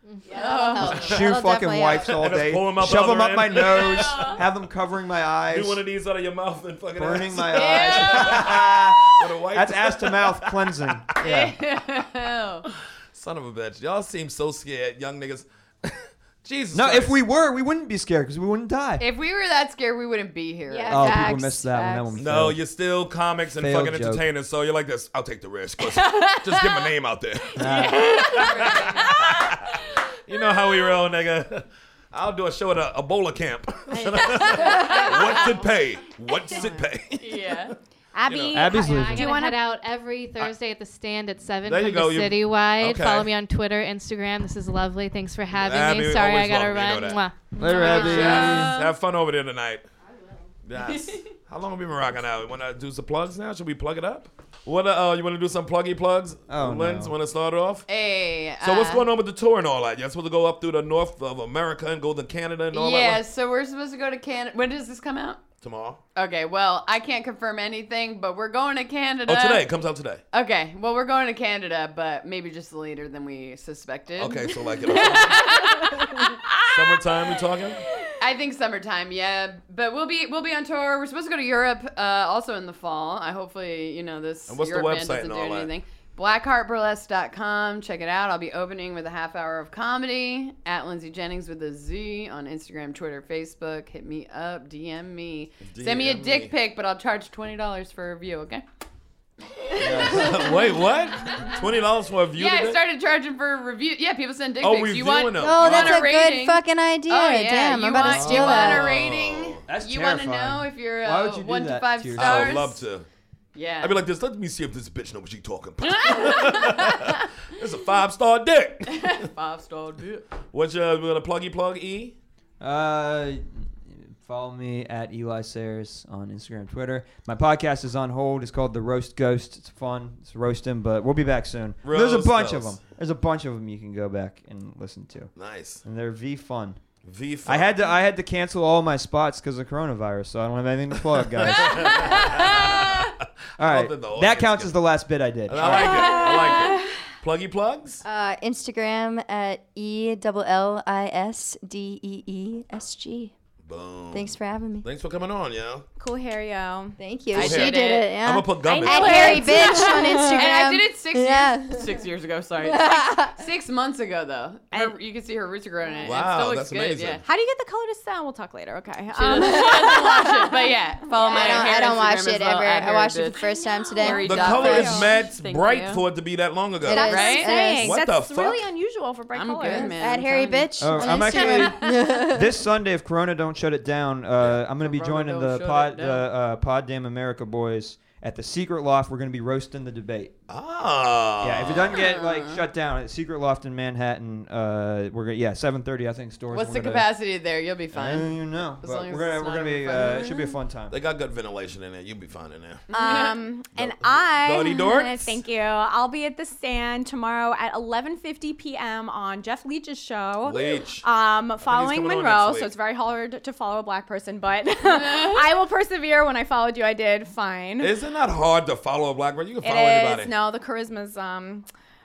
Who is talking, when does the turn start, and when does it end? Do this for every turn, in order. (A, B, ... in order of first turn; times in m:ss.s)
0:00.3-0:02.3 A
0:00.3-0:01.3 B
0:00.4-0:00.9 C
0:00.9-0:05.8 D
0:02.0-0:04.4 E
0:03.6-0:04.4 B
0:05.5-0:10.9 E
0:06.9-0:11.5 D
0:07.4-0:08.5 B
0:11.2-0:12.7 B
0:13.1-0:17.2 E
0:16.7-0:19.0 D
0:19.0-0:21.2 B
0:20.7-0:22.2 C
0:20.9-0:22.6 D
0:22.2-0:29.7 E
0:23.6-0:24.2 D
0:25.9-0:26.9 B
0:27.5-0:29.4 B
0:27.6-0:28.2 D
0:28.4-0:29.0 C
0:30.3-0:37.7 E
0:30.6-0:30.9 B
0:33.9-0:35.7 C
0:34.2-0:35.4 B
0:36.5-0:36.8 C
0:37.2-0:37.7 B
0:38.1-0:39.6 C
0:38.3-0:38.7 E
0:38.5-0:39.3 D
0:38.6-0:48.4 F
0:41.6-0:43.3 E
0:45.6-0:49.8 E
0:47.5-0:48.7 D
0:47.6-0:49.0 B
0:47.6-0:47.9 C
0:50.6-0:57.8 E
0:50.8-0:51.3 B
0:56.5-0:57.1 D
0:57.9-0:59.0 B
0:58.6-1:03.2 E
1:02.7-1:05.5 B
1:05.6-1:06.0 E
1:06.1-1:09.6 B
1:09.3-1:10.2 E
1:10.3-1:16.5 B
1:14.2-1:15.7 E
1:16.6-1:17.8 E
1:18.2-1:38.6 B
1:24.5-1:25.7 E
1:35.7-1:36.5 E
1:39.5-1:40.5 B
1:39.8-1:40.5 D
1:39.9-1:42.8 E
1:42.3-1:52.8 B
1:44.6-1:46.0 E
1:45.4-1:48.9 A
1:48.0-1:49.6 E
1:49.7-1:52.6 D
1:52.2-1:53.0 E
1:53.5-1:54.0 B
1:53.8-1:59.3 E
1:56.0-1:56.9 B
1:58.9-2:00.3 B
2:00.3-2:02.2 E
2:02.6-2:16.8 D
2:11.8-2:12.8 E
2:15.4-2:15.8 E
2:17.0-2:17.8 E
2:17.4-2:22.4 D
2:21.6-2:23.0 E
2:21.9-2:22.9 B
2:23.6-2:24.7 E
2:23.6-2:26.2 D
2:25.5-2:28.0 E
2:26.0-2:26.9 C
2:28.0-2:33.3 A
2:33.6-2:35.8 E
2:34.1-2:34.9 A
2:36.0-2:37.0 C
2:37.0-2:42.0 A
2:37.3-2:38.1 B
2:37.3-2:39.6 E
2:38.6-2:40.5 C
2:39.1-2:47.2 B
2:42.6-2:43.4 A
2:44.7-2:45.0 C
2:46.0-2:47.2 E
2:47.2-2:50.4 C
2:49.2-2:56.0 B
2:49.3-2:49.9 A
2:51.1-2:55.1 A
2:51.2-2:51.9 C
2:53.4-2:55.1 C
2:54.2-2:58.7 E
2:56.8-2:58.0 A
2:56.9-3:00.0 C
2:56.9-2:57.6 B
2:59.3-3:01.4 B
2:59.6-3:02.5 A
3:00.8-3:10.4 D
3:01.0-3:01.9 C
3:04.8-3:06.3 B
3:10.5-3:12.0 E
3:11.4-3:17.1 D
3:12.0-3:12.6 B
3:16.5-3:20.5 B
3:17.9-3:21.0 D
3:20.9-3:23.2 E
3:22.9-3:23.4 B
3:22.9-3:37.9 C
3:23.7-3:25.4 E
3:30.4-3:31.0 E
3:31.6-3:32.7 E
3:34.9-3:35.4 B
3:37.8-3:40.4 E
3:39.6-3:41.6 C